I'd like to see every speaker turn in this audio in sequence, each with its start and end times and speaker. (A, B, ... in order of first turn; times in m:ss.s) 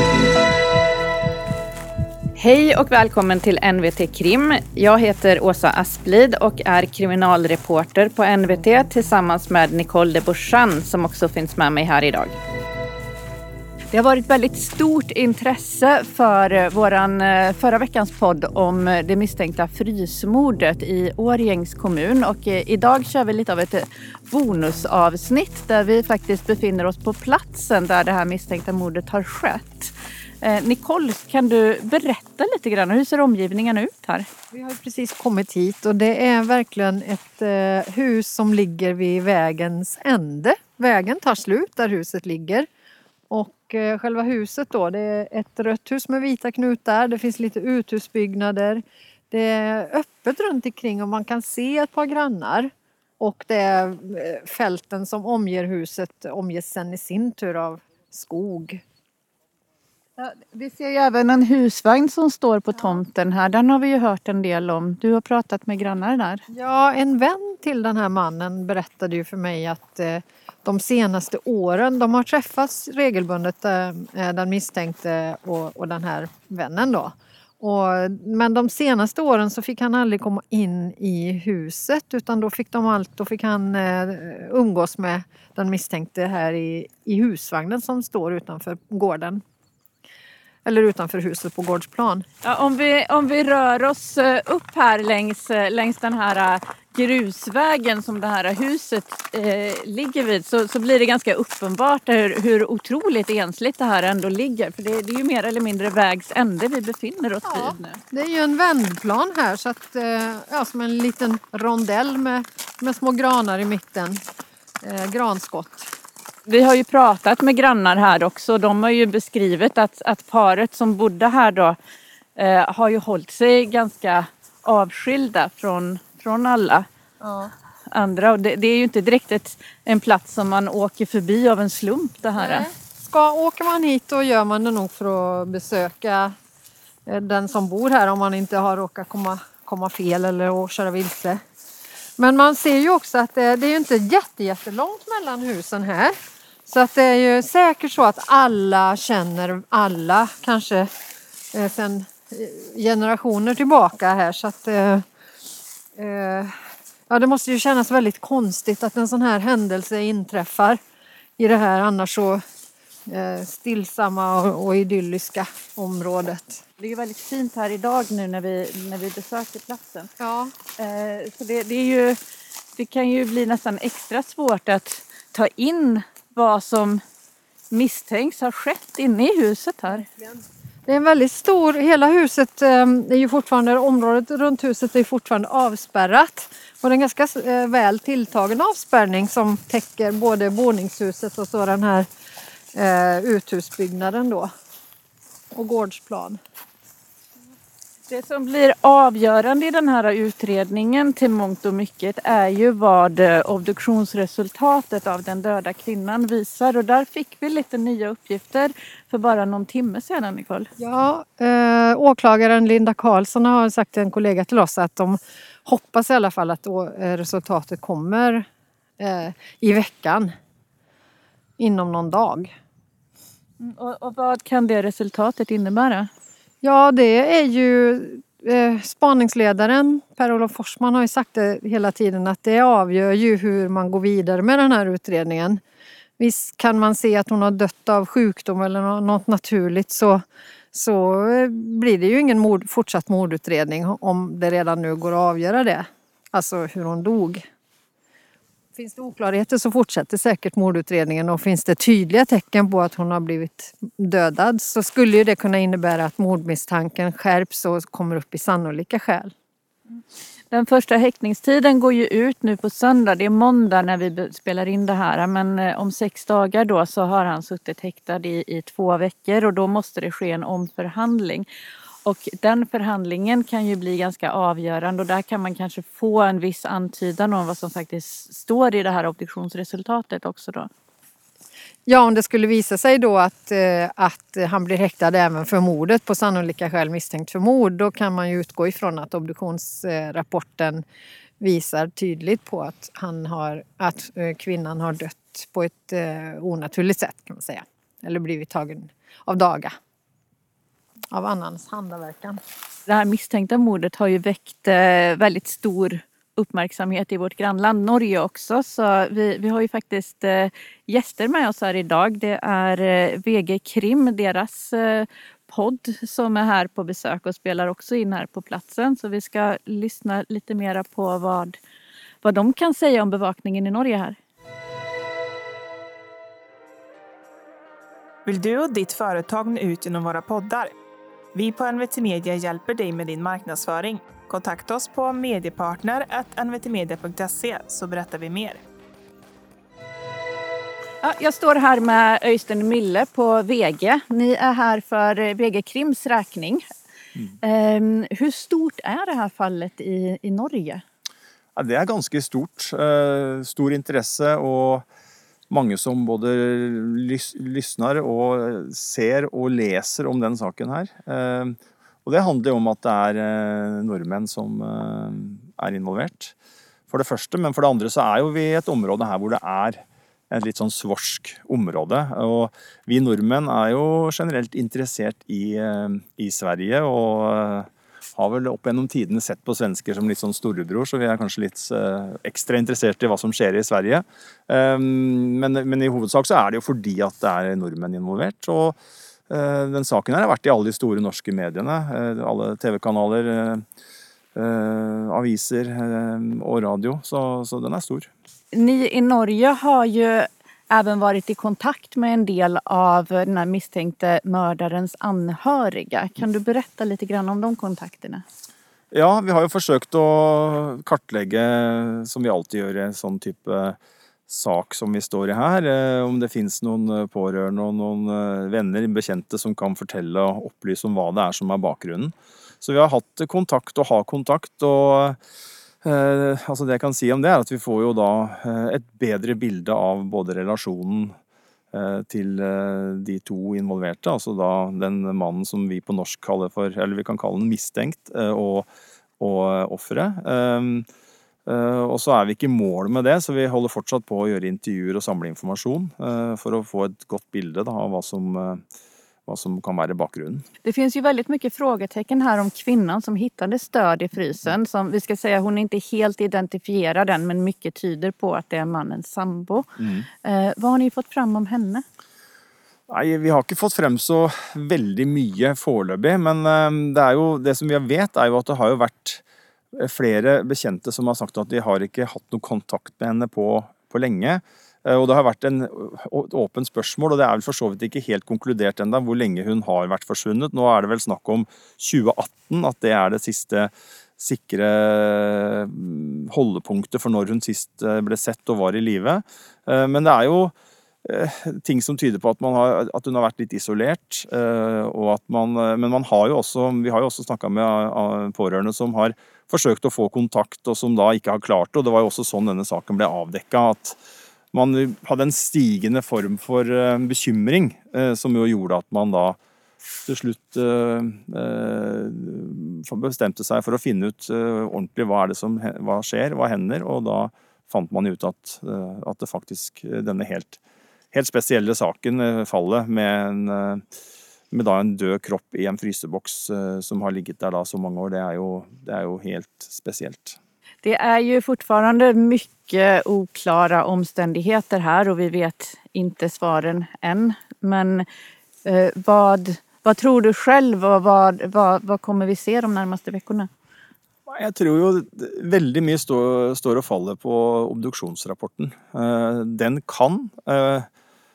0:02.4-0:12.4 A
0:13.9-0:34.3 A
0:34.5-0:42.7 B
0:43.3-0:58.8 B
1:00.2-1:06.4 A
1:06.5-1:29.4 B
1:30.6-1:32.2 B
1:32.4-1:48.0 A
1:47.4-1:54.2 B
1:54.8-1:55.9 B
1:56.5-2:01.8 A
2:02.4-2:06.9 A
2:07.2-2:07.5 B
2:07.9-2:12.7 A
2:12.4-2:16.3 B
2:17.1-2:21.4 B
2:22.2-2:26.2 B
2:26.7-2:30.9 B
2:31.5-2:35.0 B
2:36.0-2:36.6 B
2:37.1-2:40.8 B
2:41.4-2:42.4 B
2:43.1-2:46.6 B
2:46.8-2:50.1 A
2:50.2-2:50.5 B
2:50.8-2:52.2 A
2:52.8-2:57.0 A
2:57.7-3:00.0 A
3:00.0-3:12.1 B
3:12.7-3:14.5 B
3:15.5-3:16.4 B
3:18.1-3:30.7 A
3:30.8-3:38.5 B
3:39.0-3:40.3 B
3:41.6-3:42.5 B
3:43.6-3:46.1 A
3:46.6-3:55.6 B
3:56.2-4:07.4 B
4:08.8-4:19.3 B
4:20.5-4:31.5 A
4:32.0-4:40.7 A
4:41.9-4:50.8 B
4:51.4-4:59.8 B
5:01.1-5:02.4 B
5:02.9-5:21.6 A
5:22.2-5:24.2 A
5:28.3-5:30.7 C
5:31.3-5:38.6 C
5:41.0-5:46.6 A
5:47.4-5:50.8 A
5:51.6-5:54.8 D
5:55.5-6:06.4 D
6:06.9-6:28.8 D
6:29.3-6:33.6 D
6:34.4-6:38.1 D
6:38.5-6:48.2 A
6:48.9-6:53.8 D
6:54.3-7:05.2 D
7:05.8-7:11.1 D
7:11.7-7:18.7 D
7:19.2-7:20.9 D
7:21.5-7:28.6 D
7:29.3-7:30.4 D
7:30.6-7:39.7 A
7:39.8-7:40.1 D
7:40.2-7:41.8 A
7:42.9-7:49.2 D
7:49.7-8:10.5 D
8:11.0-8:24.0 D
8:24.5-8:29.4 D
8:30.0-8:40.6 D
8:41.1-8:43.8 D
8:44.5-8:50.4 D
8:50.8-8:58.1 A
8:58.6-9:03.5 A
9:04.3-9:10.9 D